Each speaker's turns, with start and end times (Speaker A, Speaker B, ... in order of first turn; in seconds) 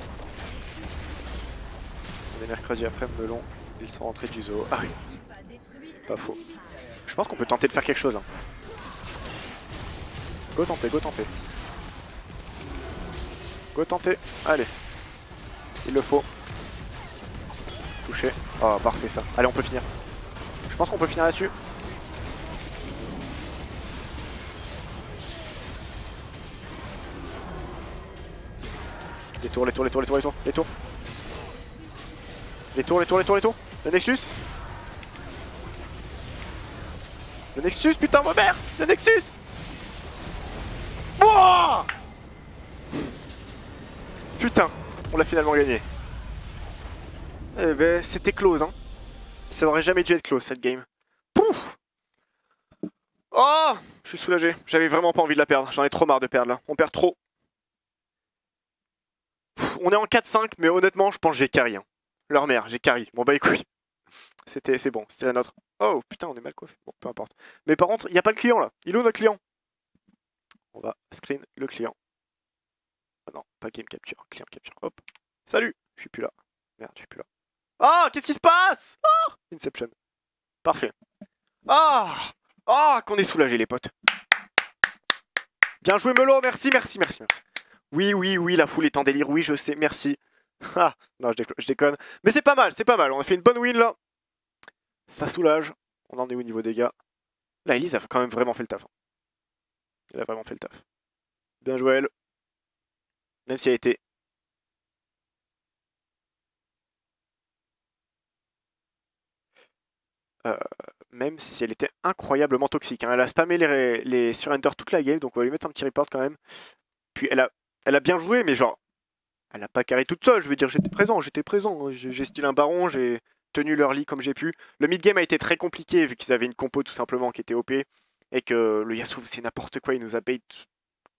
Speaker A: 2.3-5.0, 6.1-6.4, 7.1-8.3, 10.5-11.3, 13.8-14.7, 15.8-16.3, 18.0-19.9, 20.7-21.5, 29.4-30.7, 32.8-34.4, 37.5-39.4, 41.2-41.9, 44.4-45.9, 47.5-48.7, 49.5-51.8, 53.3-57.2, 59.6-63.7, 64.5-69.4, 70.7-72.0, 73.3-77.3, 77.8-79.9, 80.6-80.9, 81.7-83.9, 85.8-94.0, 95.1-96.9, 97.7-98.9, 100.1-100.8, 101.6-102.1, 103.5-104.0, 110.5-116.4, 117.2-118.8, 119.5-130.7